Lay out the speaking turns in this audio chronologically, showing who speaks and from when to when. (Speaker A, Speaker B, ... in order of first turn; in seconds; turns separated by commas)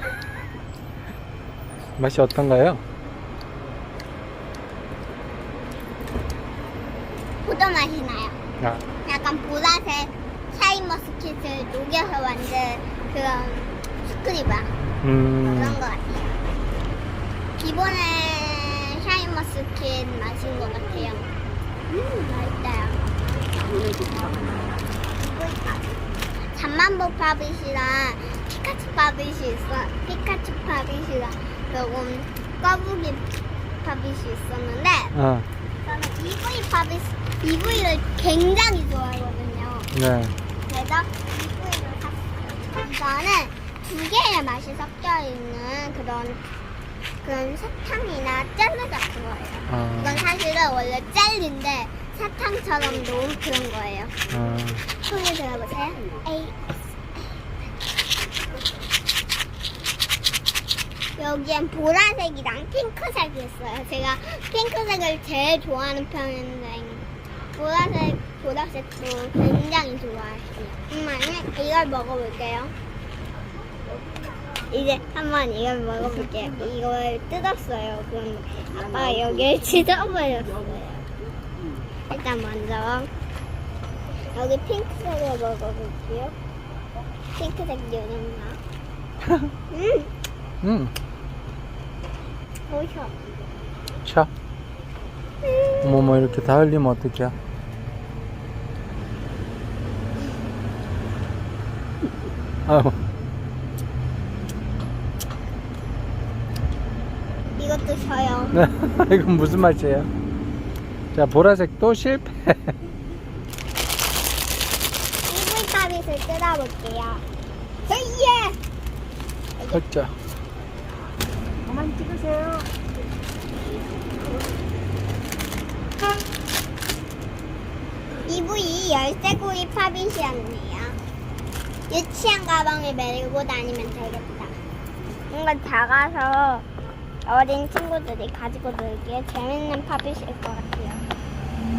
Speaker A: 2.0-2.8, Speaker B: 7.4-8.4, Speaker B: 9.0-14.7, Speaker A: 15.0-15.8, Speaker B: 15.4-16.4, Speaker B: 17.6-21.3, Speaker B: 21.9-23.1, Speaker B: 25.2-25.8, Speaker B: 26.5-33.3, Speaker B: 33.8-35.1, Speaker A: 35.1-35.5, Speaker B: 35.8-39.9, Speaker A: 39.9-40.4, Speaker B: 40.7-46.4, Speaker B: 47.2-54.1, Speaker A: 49.7-50.3, Speaker A: 54.3-54.9, Speaker B: 55.0-56.5, Speaker B: 61.1-72.7, Speaker B: 74.7-81.1, Speaker B: 82.1-83.1, Speaker B: 84.3-86.3, Speaker B: 87.3-88.6, Speaker B: 89.7-90.1, Speaker A: 90.6-90.9, Speaker B: 92.7-93.2, Speaker A: 94.0-94.3, Speaker B: 95.4-96.1, Speaker A: 95.8-97.3, Speaker A: 102.7-103.0, Speaker B: 107.6-108.6, Speaker A: 108.5-110.1, Speaker A: 111.1-112.7, Speaker B: 115.3-117.2, Speaker B: 117.9-118.6, Speaker A: 119.7-120.1, Speaker B: 128.2-131.0, Speaker B: 131.9-134.6, Speaker B: 135.3-136.7, Speaker B: 137.2-141.1